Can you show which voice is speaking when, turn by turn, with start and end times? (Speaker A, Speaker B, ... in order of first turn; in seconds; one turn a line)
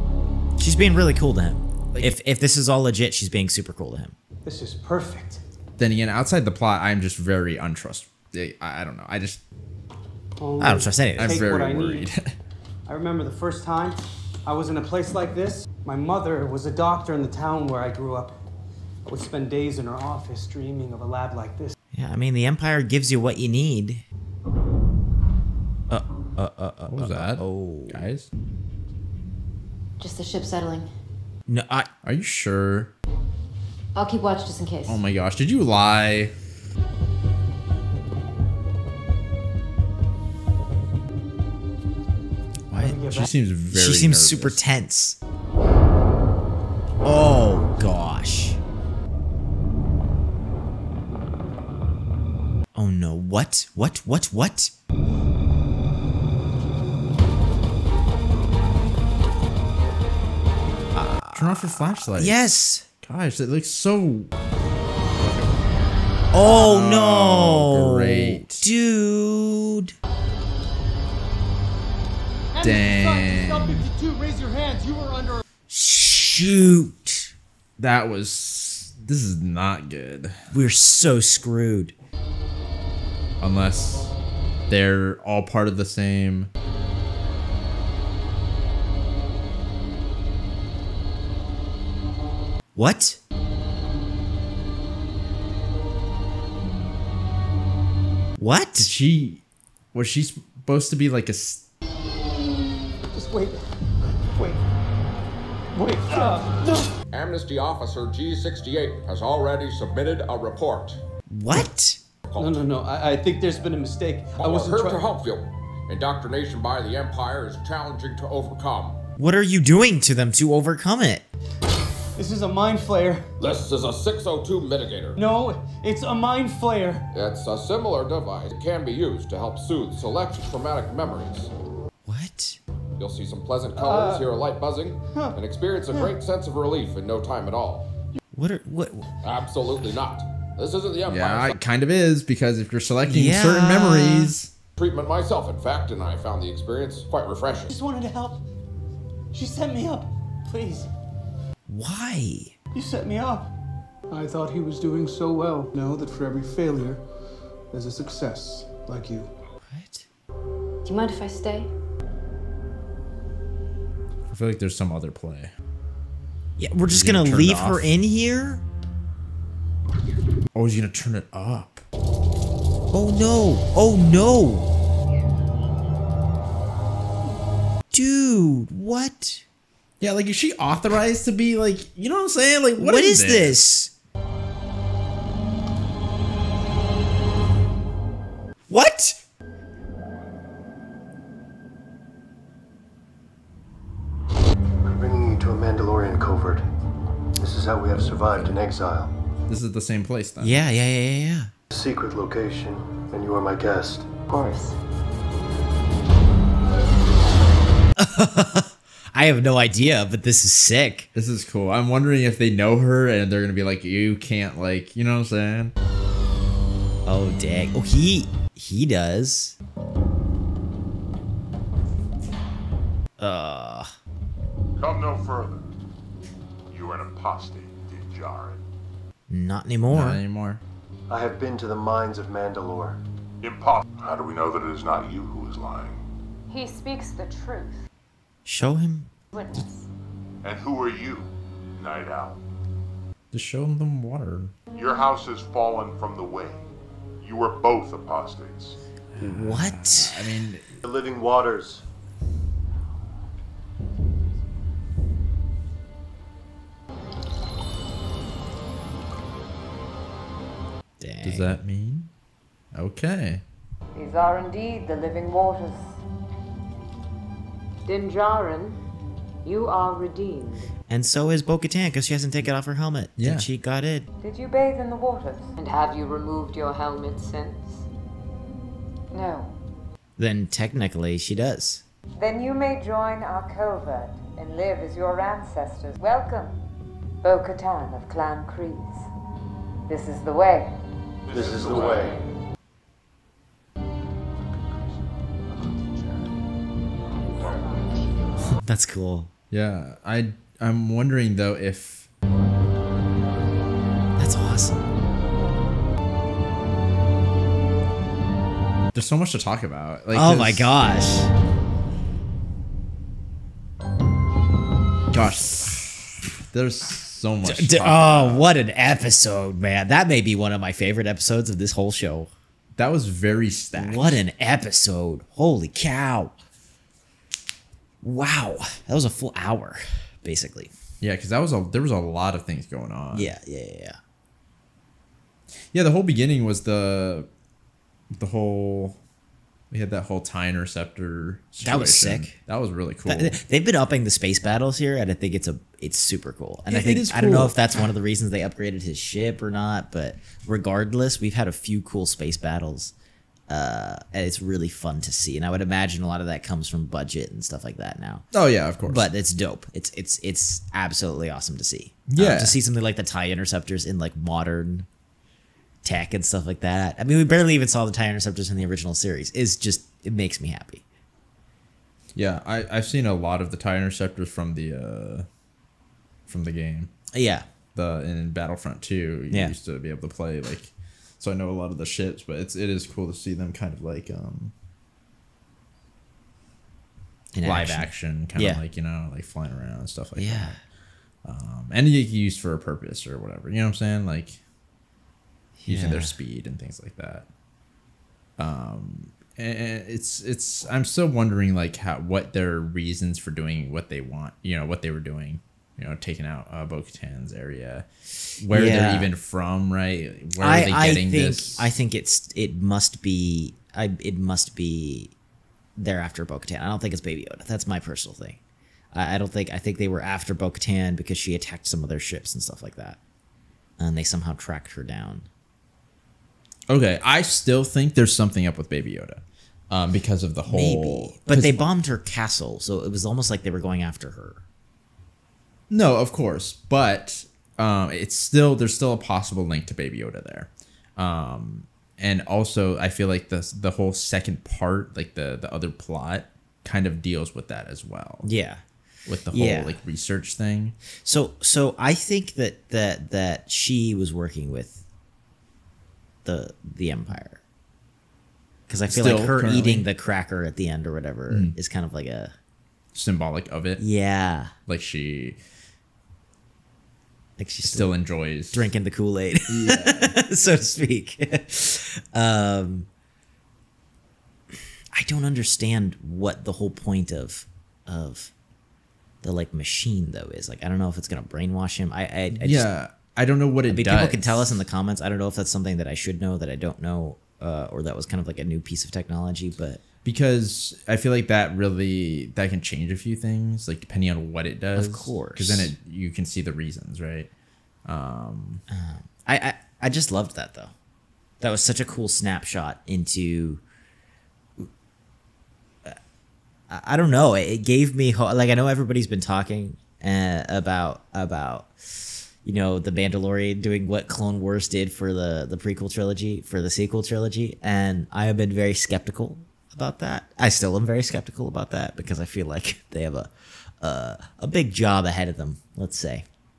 Speaker A: 0.6-4.2
Speaker B: 4.5-5.4
Speaker C: 5.8-9.4
Speaker B: 10.4-12.1
Speaker A: 10.6-11.5
Speaker C: 11.2-12.3
Speaker B: 12.9-18.3
Speaker B: 19.1-21.8
Speaker A: 21.9-24.0
Speaker A: 25.9-28.1
Speaker C: 26.9-28.3
Speaker D: 30.0-30.9
Speaker A: 31.5-31.9
Speaker C: 32.0-32.9
Speaker D: 34.0-35.0
Speaker C: 34.9-36.3
Speaker A: 42.7-43.1
Speaker B: 42.7-43.3
Speaker C: 43.1-44.6
Speaker A: 43.7-45.2
Speaker A: 47.0-48.6
Speaker A: 52.8-54.7
Speaker A: 60.9-62.9
Speaker C: 61.3-62.4
Speaker C: 63.0-64.3
Speaker C: 65.2-65.8
Speaker A: 66.3-70.0
Speaker C: 66.4-68.7
Speaker B: 72.5-75.4
Speaker C: 72.6-73.8
Speaker A: 75.7-77.3
Speaker C: 77.8-80.4
Speaker A: 80.5-82.0
Speaker C: 83.4-84.2
Speaker C: 84.7-86.5
Speaker A: 92.8-93.2
Speaker A: 98.4-98.9
Speaker C: 98.8-99.4
Speaker C: 99.9-101.7
Speaker B: 103.0-104.6
Speaker B: 105.7-106.9
Speaker E: 107.1-111.0
Speaker A: 111.3-112.0
Speaker E: 112.3-112.6
Speaker B: 112.4-115.1
Speaker E: 114.4-119.0
Speaker A: 119.2-121.2
Speaker B: 122.2-123.6
Speaker E: 123.4-125.2
Speaker B: 125.2-127.0
Speaker E: 127.1-131.5
Speaker A: 132.1-132.6
Speaker E: 133.0-137.9
Speaker B: 133.8-134.3
Speaker B: 135.1-135.4
Speaker A: 138.3-139.1
Speaker E: 139.2-141.6
Speaker C: 141.1-144.5
Speaker A: 143.1-144.3
Speaker E: 144.8-147.7
Speaker B: 147.7-148.4
Speaker B: 149.3-150.9
Speaker A: 151.7-152.5
Speaker B: 152.7-153.5
Speaker F: 154.1-157.0
Speaker F: 157.7-159.3
Speaker A: 159.6-160.1
Speaker D: 160.8-161.7
Speaker C: 164.3-165.5
Speaker A: 166.6-168.6
Speaker C: 166.9-167.9
Speaker C: 170.5-171.8
Speaker A: 172.9-174.7
Speaker A: 177.9-179.4
Speaker C: 180.0-183.6
Speaker A: 182.8-183.9
Speaker A: 188.7-189.2
Speaker G: 194.9-196.6
Speaker G: 197.4-199.1
Speaker C: 199.5-200.6
Speaker A: 200.4-201.5
Speaker G: 201.7-204.1
Speaker D: 204.3-204.8
Speaker A: 208.0-211.1
Speaker C: 211.2-215.7
Speaker A: 217.1-219.6
Speaker A: 223.2-223.9
Speaker H: 224.8-225.6
Speaker H: 226.7-228.6
Speaker A: 229.3-230.2
Speaker C: 229.9-230.6
Speaker G: 231.1-233.0
Speaker H: 233.4-236.0
Speaker I: 236.5-237.8
Speaker A: 238.5-239.1
Speaker I: 239.3-239.9
Speaker H: 240.4-242.4
Speaker C: 243.3-244.5
Speaker H: 244.7-246.6
Speaker H: 247.2-248.8
Speaker C: 249.2-250.6
Speaker A: 249.2-250.2
Speaker G: 250.8-251.8
Speaker A: 261.0-261.6
Speaker C: 261.2-262.1
Speaker C: 262.7-263.4
Speaker J: 263.9-266.0
Speaker J: 267.9-268.8
Speaker J: 269.4-270.7
Speaker A: 270.9-274.1
Speaker C: 273.2-273.5
Speaker J: 274.2-277.7
Speaker J: 279.1-279.5
Speaker A: 280.2-281.8
Speaker J: 282.2-286.5
Speaker J: 287.2-289.1
Speaker J: 289.9-290.7
Speaker J: 291.3-292.2
Speaker G: 291.3-292.2
Speaker H: 295.9-296.3
Speaker J: 297.4-298.0
Speaker H: 297.4-297.7
Speaker A: 298.6-299.3
Speaker C: 299.5-302.1
Speaker A: 304.2-304.9
Speaker C: 308.9-310.7
Speaker A: 310.1-311.3
Speaker C: 315.1-318.5
Speaker A: 317.4-322.3
Speaker C: 322.8-324.2
Speaker A: 323.8-326.4
Speaker A: 328.0-330.7
Speaker C: 331.0-333.3
Speaker A: 333.1-334.0
Speaker C: 335.7-337.3
Speaker C: 338.1-339.0
Speaker C: 339.7-343.4
Speaker A: 341.6-342.4
Speaker A: 343.1-352.9
Speaker C: 346.7-347.6
Speaker A: 353.5-358.3
Speaker C: 358.3-359.1
Speaker A: 358.9-364.9
Speaker C: 362.1-362.6
Speaker A: 365.8-370.8
Speaker C: 372.1-375.3
Speaker C: 376.3-376.9
Speaker A: 377.1-377.5
Speaker C: 377.8-384.5
Speaker A: 379.3-379.6
Speaker A: 387.3-388.6
Speaker C: 387.4-390.6
Speaker A: 390.2-390.6
Speaker C: 391.2-394.4
Speaker A: 395.6-396.2
Speaker C: 395.7-397.3
Speaker C: 398.4-407.9
Speaker C: 408.4-411.7
Speaker A: 408.5-409.1
Speaker A: 410.4-415.1
Speaker A: 415.8-418.4
Speaker A: 418.9-423.0
Speaker A: 423.8-425.3
Speaker C: 426.7-431.6
Speaker A: 430.5-434.4
Speaker C: 435.7-448.3
Speaker A: 448.2-448.6
Speaker C: 449.1-450.8
Speaker A: 449.3-449.8
Speaker A: 451.0-454.8
Speaker A: 456.2-457.4
Speaker A: 458.7-462.3
Speaker C: 458.9-459.9
Speaker C: 461.3-461.6
Speaker C: 462.9-463.8
Speaker A: 463.8-464.5
Speaker C: 464.7-465.4
Speaker A: 467.4-467.9
Speaker C: 467.6-468.7
Speaker A: 468.5-472.9
Speaker C: 469.5-470.2
Speaker A: 474.9-478.3
Speaker A: 479.2-482.7
Speaker C: 482.4-484.6
Speaker A: 483.7-489.8
Speaker C: 490.1-497.3
Speaker A: 494.8-495.7
Speaker C: 497.9-498.6
Speaker A: 498.7-500.7
Speaker A: 501.4-503.6
Speaker A: 506.7-526.2